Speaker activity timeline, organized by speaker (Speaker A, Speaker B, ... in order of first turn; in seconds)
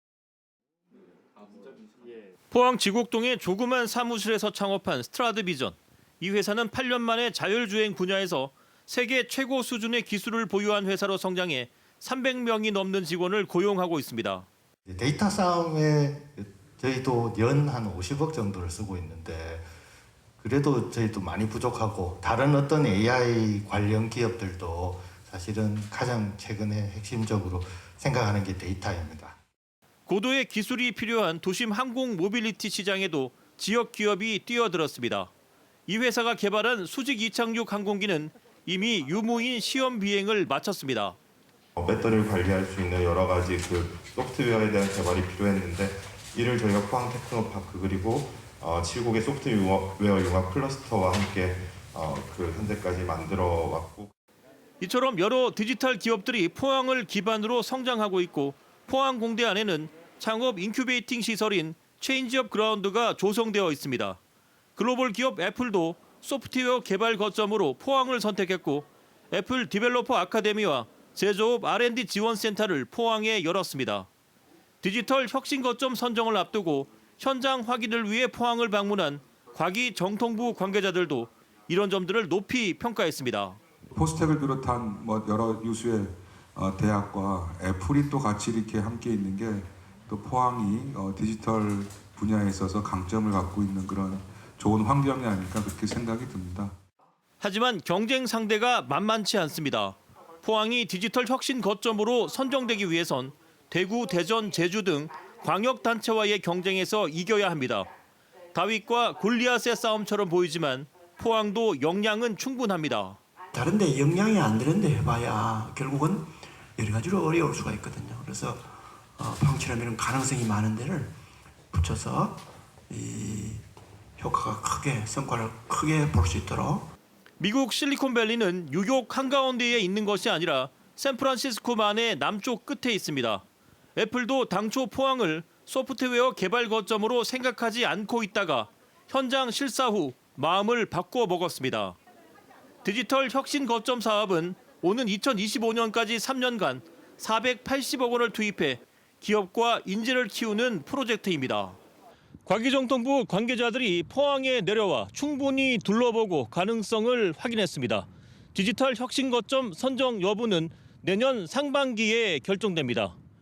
Speaker A: 2.5-14.5, 30.1-35.3, 35.9-41.2, 54.8-64.2, 64.8-74.1, 74.8-83.6, 97.4-107.9, 108.5-113.2, 127.4-133.4, 133.9-142.0, 142.8-151.8, 152.4-163.2
Speaker B: 14.8-19.7, 20.4-29.4
Speaker C: 41.8-54.1
Speaker D: 83.9-96.7
Speaker E: 113.5-121.1, 121.7-123.6, 124.2-126.9